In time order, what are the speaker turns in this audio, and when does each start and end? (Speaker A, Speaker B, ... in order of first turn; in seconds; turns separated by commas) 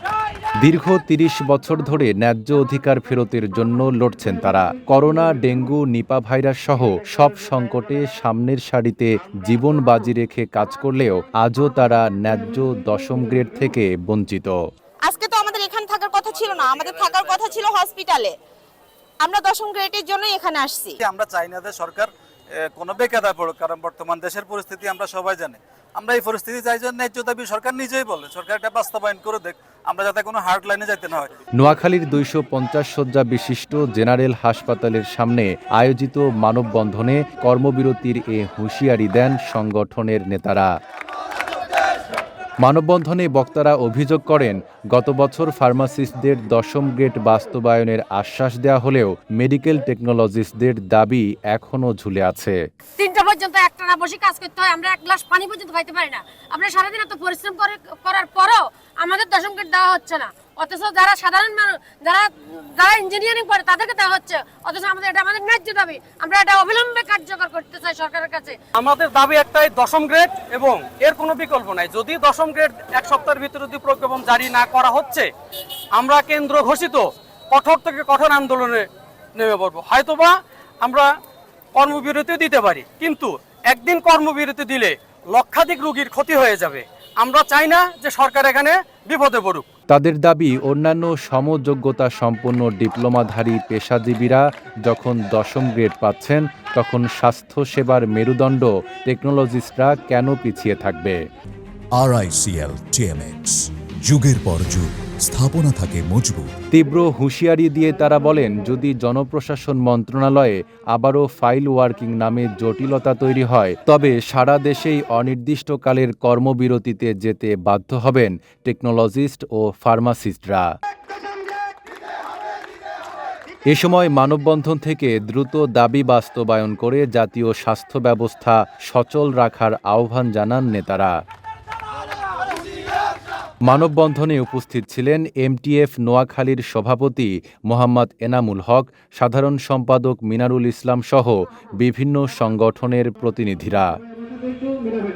Speaker A: 0.6-14.6, Speaker B: 15.0-18.4, Speaker B: 19.2-21.0, Speaker C: 21.0-31.3, Speaker A: 31.6-40.7, Speaker A: 42.6-52.6, Speaker D: 53.0-68.6, Speaker E: 68.8-75.3, Speaker E: 76.0-81.1, Speaker E: 81.8-89.7, Speaker A: 89.9-101.2, Speaker F: 102.0-106.5, Speaker A: 106.7-120.7, Speaker A: 123.7-131.2, Speaker A: 133.7-143.9